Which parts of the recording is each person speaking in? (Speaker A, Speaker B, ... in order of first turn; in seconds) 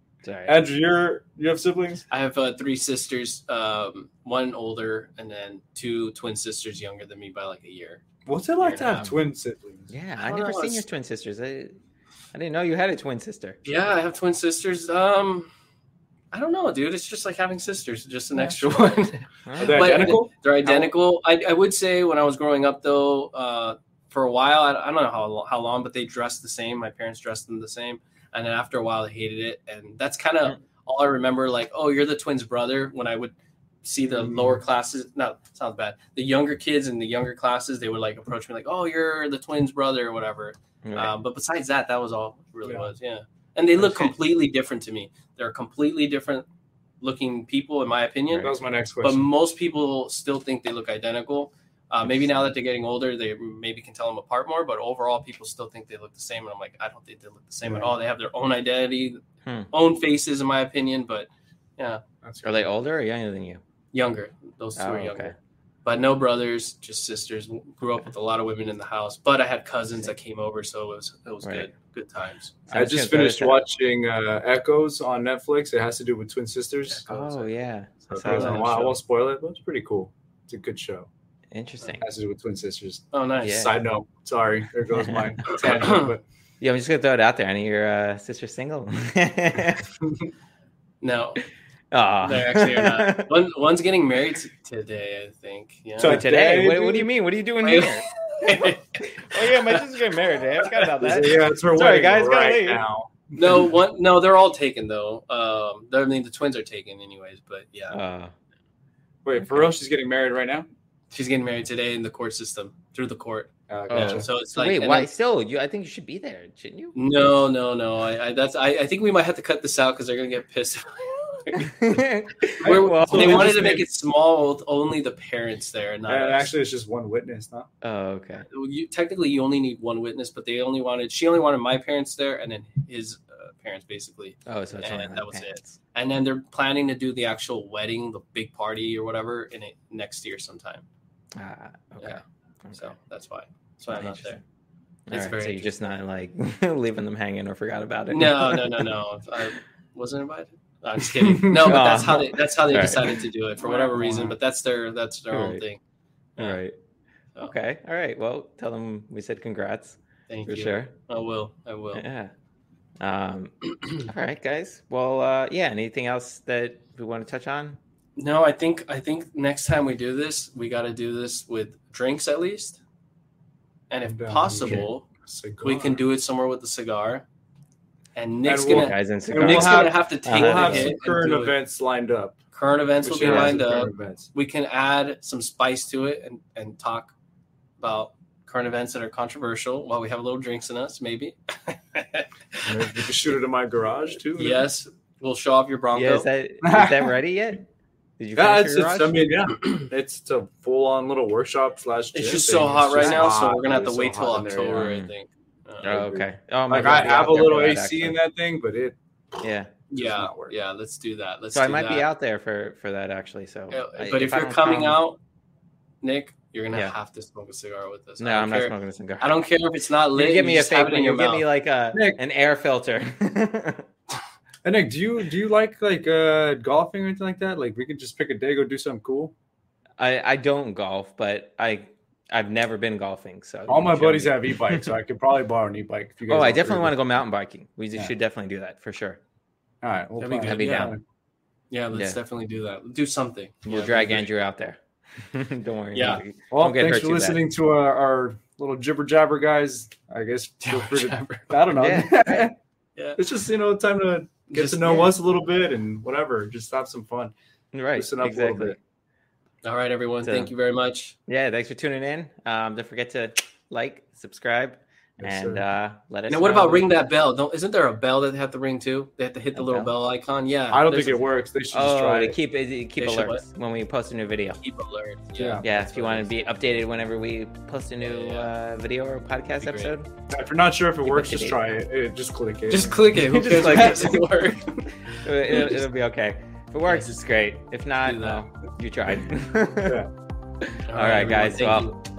Speaker A: 0.2-0.6, 9.9-11.7, 12.3-13.6, 19.4-20.1, 40.8-41.1, 52.0-52.5, 59.4-59.7, 62.4-63.6, 64.8-65.3, 71.4-71.7, 72.7-73.6, 77.1-78.8, 81.5-82.1, 83.4-83.7, 85.0-85.7, 86.6-89.9, 91.9-93.3, 96.0-102.8, 107.9-108.3, 109.4-109.7, 113.9-117.0, 121.6-123.8, 127.8-128.4, 134.4-135.8, 141.3-142.9, 143.9-144.4, 145.1-148.9, 151.5-153.2, 155.3-155.6, 156.4-156.7, 157.4-160.9, 161.9-162.3, 163.0-167.8, 174.6-174.9, 178.7-180.9, 183.2-183.6, 195.9-197.7, 198.2-199.3, 203.0-203.3, 204.7-205.1, 205.8-208.2, 209.4-209.7, 211.5-215.0, 218.2-219.4, 220.1-223.9, 230.0-234.9, 236.3-239.2, 240.3-240.9, 241.9-242.2, 243.7-247.4, 251.7-252.5, 257.7-258.8, 260.2-260.5, 261.3-266.9, 269.5-269.9, 271.7-274.6, 275.6-280.1, 281.0-281.6, 283.1-284.2, 285.2-290.0, 290.9-291.9
Speaker B: 0.5-2.0, 8.2-9.9, 18.4-18.7, 19.6-20.9, 34.1-34.6, 42.6-42.9, 43.8-44.1, 48.4-49.3, 57.6-58.0, 62.2-62.7, 72.7-77.4, 78.1-81.1, 81.8-86.2, 96.0-97.1, 101.0-103.7, 109.2-110.7, 113.7-114.3, 122.6-123.8, 126.1-127.7, 151.2-151.8, 153.6-154.4, 174.0-176.0, 178.4-182.4, 183.0-184.3, 192.6-194.7, 196.6-197.1, 198.3-204.9, 205.9-209.0, 209.9-210.5, 221.9-222.2, 224.6-229.3, 233.7-236.9, 239.8-241.0, 246.5-252.5, 253.2-257.3, 257.9-258.8, 265.2-265.6, 270.7-272.4, 275.4-275.6, 280.3-284.1, 289.8-290.1
Speaker C: 2.1-8.0, 8.6-9.1, 10.2-10.8, 13.6-15.5, 16.3-46.5, 47.0-59.2, 59.7-62.0, 63.9-65.3, 65.8-72.5, 78.2-79.0, 83.1-83.6, 85.5-86.1, 91.0-91.4, 92.2-96.2, 97.6-99.8, 103.3-108.0, 111.1-115.1, 116.9-126.5, 128.5-140.8, 142.8-144.4, 145.1-145.9, 148.1-155.8, 160.3-162.0, 168.2-172.8, 173.9-175.1, 175.6-177.2, 178.1-181.6, 182.5-187.1, 187.8-193.2, 194.3-196.3, 202.1-206.1, 209.9-212.1, 213.7-215.2, 216.0-221.4, 240.2-240.9, 241.7-244.3, 245.9-246.2, 250.6-251.5, 254.5-255.1, 259.6-261.1, 266.3-271.3, 273.0-273.4, 274.6-276.5, 278.0-278.5, 279.6-279.9, 282.7-284.8, 285.5-285.8, 286.9-287.2, 288.0-288.4, 290.9-291.9